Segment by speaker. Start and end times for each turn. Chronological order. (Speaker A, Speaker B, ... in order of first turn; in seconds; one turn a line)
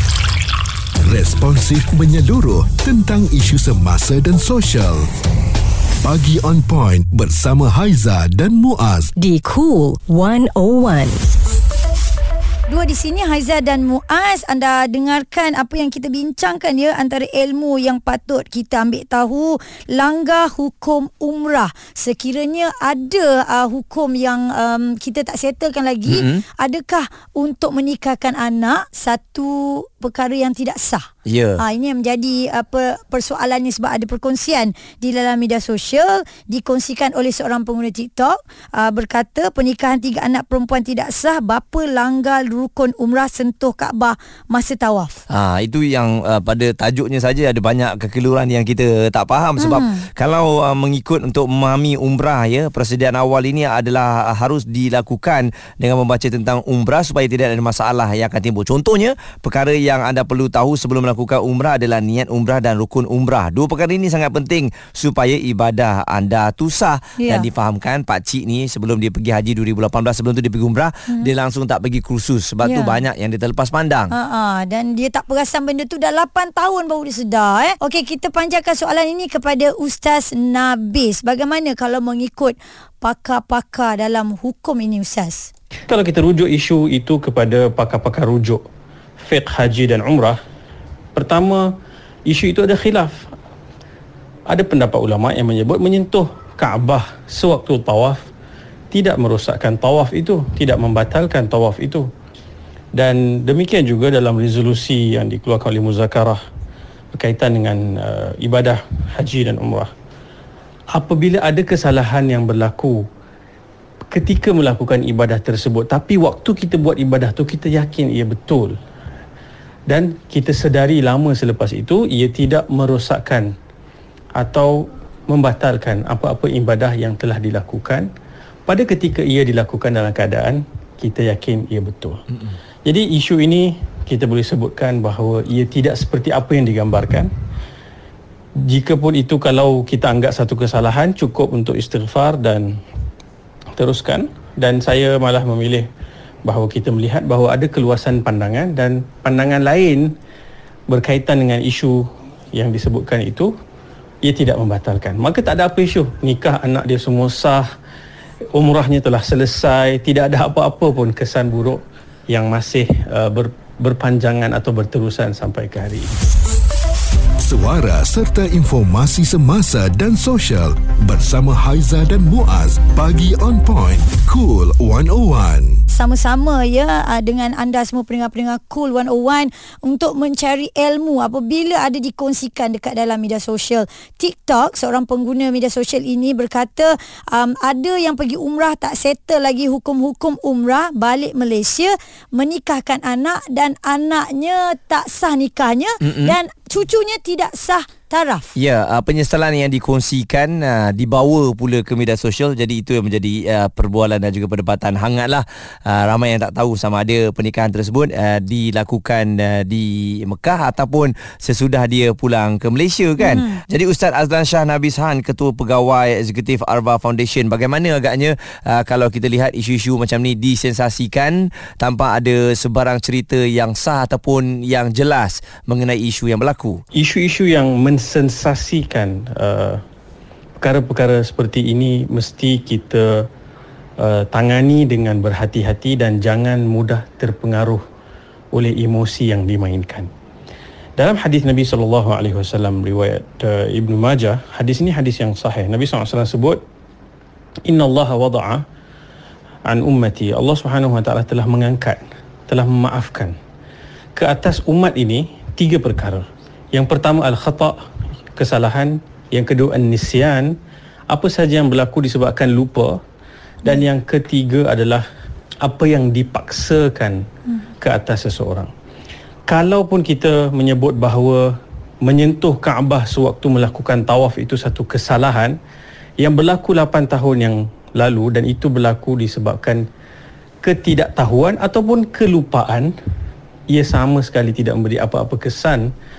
Speaker A: 1.0-5.1
Speaker A: 6.0-9.1
Speaker B: 9.2-11.2
Speaker C: 12.7-45.2
Speaker D: 26.1-26.4
Speaker D: 31.2-31.6
Speaker D: 45.3-74.1
Speaker C: 49.6-50.0
Speaker C: 67.2-67.5
Speaker C: 72.6-73.0
Speaker C: 74.1-85.5
Speaker E: 85.9-88.6
Speaker E: 89.2-90.4
Speaker E: 91.1-91.7
Speaker E: 92.2-93.3
Speaker E: 94.5-98.2
Speaker E: 98.9-102.1
Speaker E: 102.9-106.4
Speaker E: 107.1-109.9
Speaker E: 110.9-113.0
Speaker E: 114.1-118.8
Speaker E: 119.9-123.5
Speaker E: 124.3-128.1
Speaker E: 128.7-132.2
Speaker E: 132.8-137.3
Speaker E: 138.7-142.7
Speaker E: 143.8-145.9
Speaker E: 146.4-150.1
Speaker E: 150.9-153.5
Speaker E: 154.2-157.6
Speaker E: 158.5-166.2
Speaker A: 167.4-175.8
Speaker C: 175.9-198.5
Speaker D: 196.0-196.3
Speaker D: 198.6-226.8
Speaker C: 213.2-213.6
Speaker E: 226.9-229.8
Speaker E: 230.6-233.3
Speaker E: 234.0-237.8
Speaker E: 238.5-240.1
Speaker E: 241.0-246.6
Speaker E: 247.7-248.6
Speaker E: 249.7-253.3
Speaker E: 254.2-257.8
Speaker E: 258.4-260.5
Speaker E: 261.1-263.0
Speaker E: 263.6-265.0
Speaker E: 265.6-267.2
Speaker E: 267.8-268.7
Speaker E: 269.5-275.6
Speaker E: 276.2-279.8
Speaker E: 280.6-282.9
Speaker E: 283.7-285.9